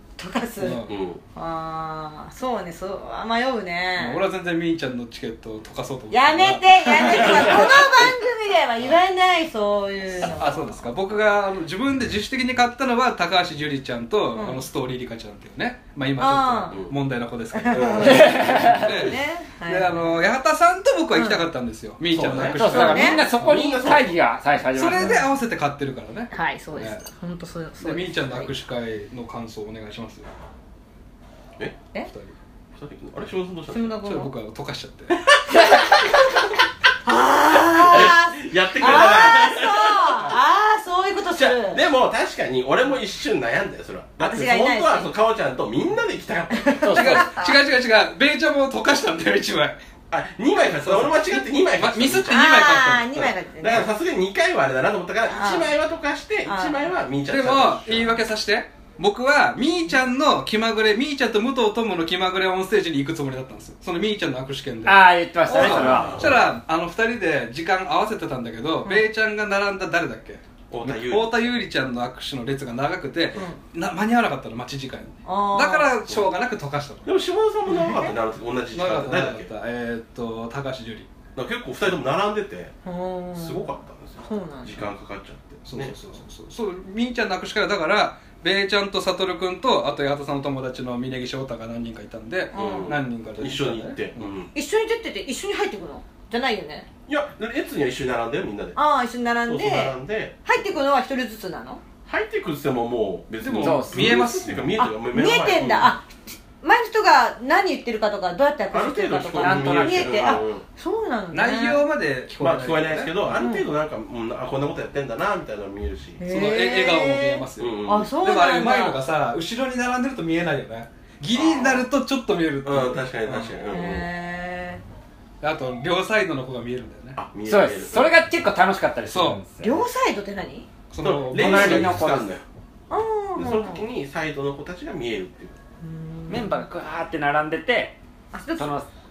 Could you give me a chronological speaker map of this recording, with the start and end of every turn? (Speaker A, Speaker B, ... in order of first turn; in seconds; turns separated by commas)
Speaker A: 0.2-4.2, Speaker B: 0.6-0.9, Speaker C: 0.9-1.2, Speaker B: 4.0-8.1, Speaker A: 6.1-10.8, Speaker C: 7.1-7.8, Speaker B: 10.2-23.6, Speaker A: 14.3-14.6, Speaker A: 16.2-16.8, Speaker A: 17.5-20.2, Speaker C: 17.7-19.0, Speaker D: 18.0-18.9, Speaker A: 21.1-21.4, Speaker C: 22.1-24.2, Speaker D: 22.6-25.3, Speaker A: 22.7-23.2, Speaker B: 24.7-27.0, Speaker A: 26.3-28.5, Speaker B: 27.8-30.3, Speaker B: 32.0-32.3, Speaker C: 32.7-34.0, Speaker A: 33.7-34.3, Speaker B: 34.0-35.2, Speaker C: 35.5-35.9, Speaker A: 37.0-41.8, Speaker C: 37.7-40.3, Speaker C: 41.3-47.2, Speaker A: 44.2-45.1, Speaker A: 46.5-47.5, Speaker B: 46.9-49.8, Speaker C: 50.1-58.1, Speaker B: 50.7-53.2, Speaker A: 52.3-53.9, Speaker A: 55.3-55.7, Speaker A: 56.5-56.8, Speaker B: 57.3-77.1, Speaker D: 64.8-66.2, Speaker A: 65.5-66.2, Speaker C: 65.5-66.4, Speaker C: 70.7-71.5, Speaker A: 73.3-73.6, Speaker A: 75.2-75.9, Speaker C: 77.0-79.5, Speaker A: 77.7-78.1, Speaker B: 78.7-81.1, Speaker C: 81.3-82.7, Speaker A: 82.8-83.7, Speaker C: 83.3-85.9, Speaker A: 84.2-84.8, Speaker B: 85.6-94.3, Speaker A: 92.5-93.0, Speaker C: 92.5-94.5, Speaker A: 94.5-96.9, Speaker C: 97.1-98.8, Speaker A: 98.8-101.8, Speaker C: 99.4-100.7, Speaker C: 102.0-106.0, Speaker B: 103.4-104.7, Speaker D: 103.6-104.2, Speaker A: 104.8-111.8, Speaker C: 108.7-110.6, Speaker D: 109.4-110.4, Speaker B: 111.3-113.2, Speaker C: 112.4-116.2, Speaker A: 113.4-113.7, Speaker A: 116.2-119.0, Speaker B: 116.3-123.5, Speaker C: 117.6-118.1, Speaker C: 121.3-121.9, Speaker C: 122.6-124.0, Speaker A: 123.7-124.8, Speaker B: 125.4-127.2, Speaker C: 127.2-128.1, Speaker D: 127.5-129.8, Speaker B: 129.1-129.4, Speaker A: 129.6-130.7, Speaker B: 130.9-132.0, Speaker C: 131.0-132.4, Speaker D: 131.3-132.3, Speaker A: 132.9-133.8, Speaker C: 133.3-135.6, Speaker A: 135.8-136.6, Speaker D: 136.3-138.0, Speaker A: 138.3-138.7, Speaker D: 138.6-138.8